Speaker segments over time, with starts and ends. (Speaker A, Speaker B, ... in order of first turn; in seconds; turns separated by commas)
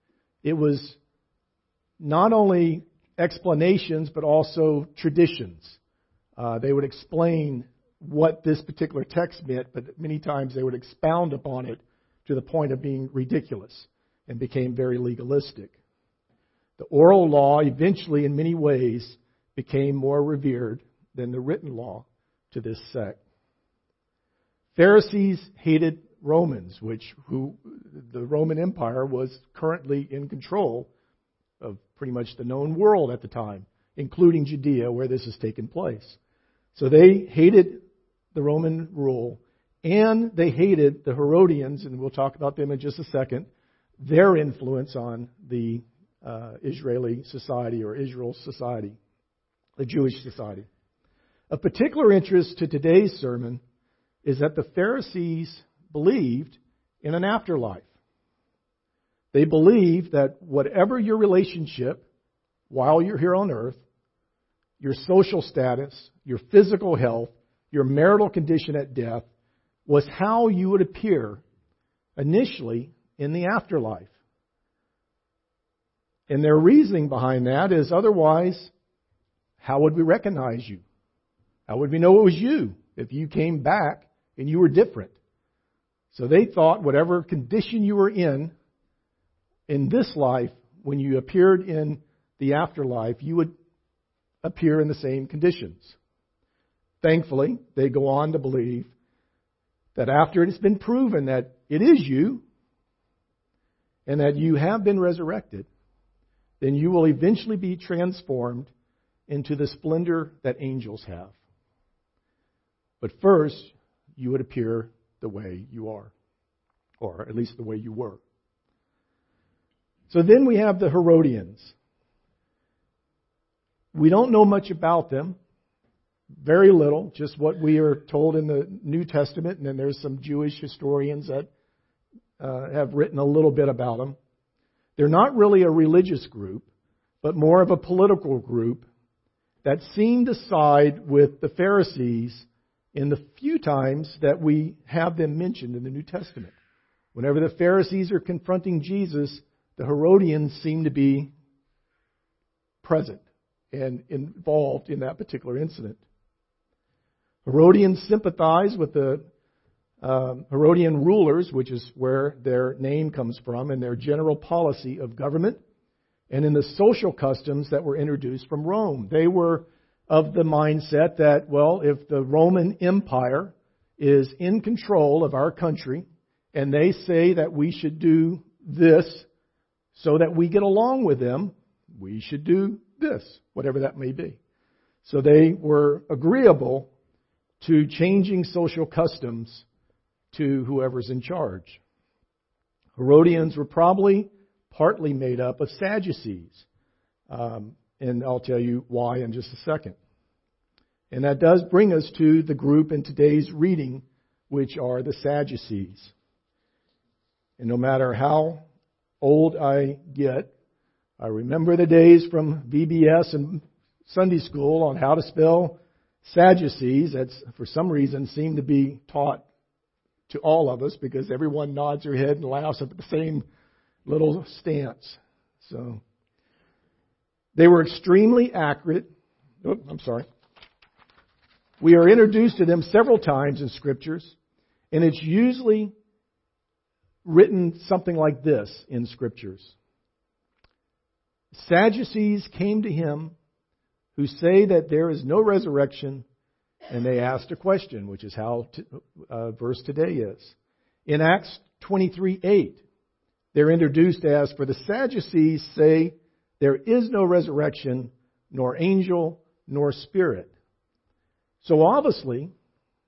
Speaker A: 0.4-1.0, Speaker A: 2.0-5.8, Speaker A: 6.4-15.8, Speaker A: 16.8-23.2, Speaker A: 24.8-30.9, Speaker A: 31.6-36.2, Speaker A: 36.8-37.8, Speaker A: 38.3-43.5, Speaker A: 44.0-49.0, Speaker A: 49.8-50.7, Speaker A: 51.5-53.6, Speaker A: 54.2-57.9, Speaker A: 59.3-62.0, Speaker A: 62.7-63.8, Speaker A: 64.8-69.3, Speaker A: 69.9-71.4, Speaker A: 72.2-74.1, Speaker A: 76.3-78.7, Speaker A: 79.6-80.8, Speaker A: 81.7-85.2, Speaker A: 86.1-88.5, Speaker A: 89.7-93.5, Speaker A: 94.4-96.0, Speaker A: 97.0-98.9, Speaker A: 100.0-102.4, Speaker A: 104.1-105.7, Speaker A: 106.6-108.7, Speaker A: 109.3-111.3, Speaker A: 113.0-116.1, Speaker A: 117.0-118.2, Speaker A: 120.1-121.8, Speaker A: 123.9-125.4, Speaker A: 126.4-131.5, Speaker A: 132.4-134.2, Speaker A: 135.0-136.7, Speaker A: 137.2-138.9, Speaker A: 139.6-146.6, Speaker A: 147.1-151.3, Speaker A: 152.8-156.0, Speaker A: 157.4-159.3, Speaker A: 160.0-165.6, Speaker A: 166.3-179.3, Speaker A: 179.9-184.4, Speaker A: 185.0-186.9, Speaker A: 187.6-189.7, Speaker A: 190.3-191.8, Speaker A: 193.0-196.7, Speaker A: 197.3-200.0, Speaker A: 201.1-206.1, Speaker A: 207.6-208.7, Speaker A: 209.2-210.5, Speaker A: 211.2-219.4, Speaker A: 220.3-223.4, Speaker A: 224.1-226.0, Speaker A: 227.6-229.1, Speaker A: 229.6-230.3, Speaker A: 231.8-234.3, Speaker A: 234.9-235.9, Speaker A: 237.2-239.7, Speaker A: 241.5-243.3, Speaker A: 244.2-246.2, Speaker A: 246.9-250.6, Speaker A: 251.1-252.8, Speaker A: 253.5-260.5, Speaker A: 261.6-262.5